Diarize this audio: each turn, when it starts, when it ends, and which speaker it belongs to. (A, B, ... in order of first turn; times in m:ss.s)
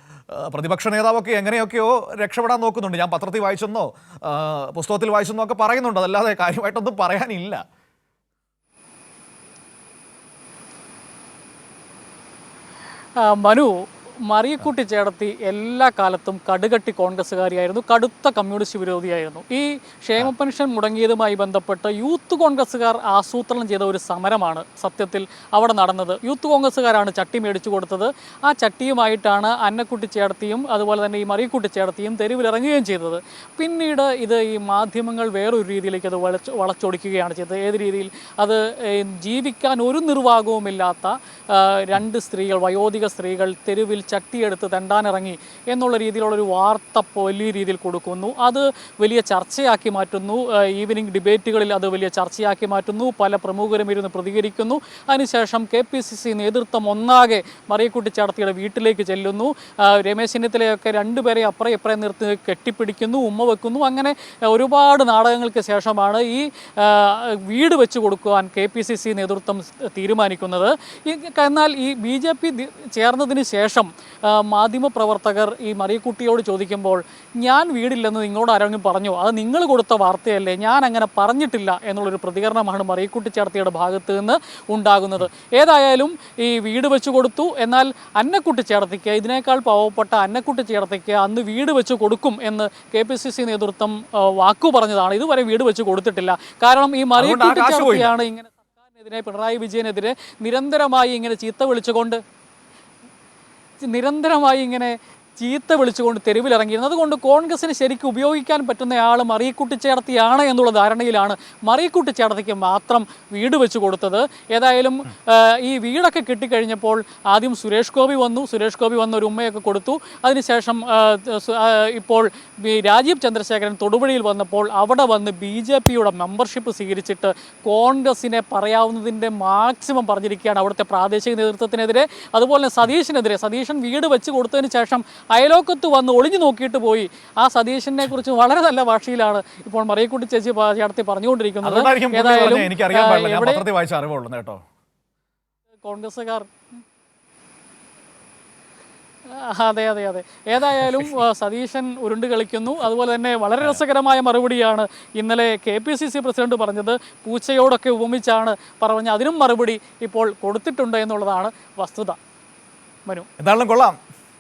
0:00.3-0:07.6 A
0:13.2-0:13.7 B
0:14.3-1:42.2 B
1:37.2-1:38.1 A
1:43.9-2:23.6 B
2:21.6-2:24.6 A
2:25.8-2:26.5 B
2:29.3-2:42.2 B
2:43.4-2:44.0 A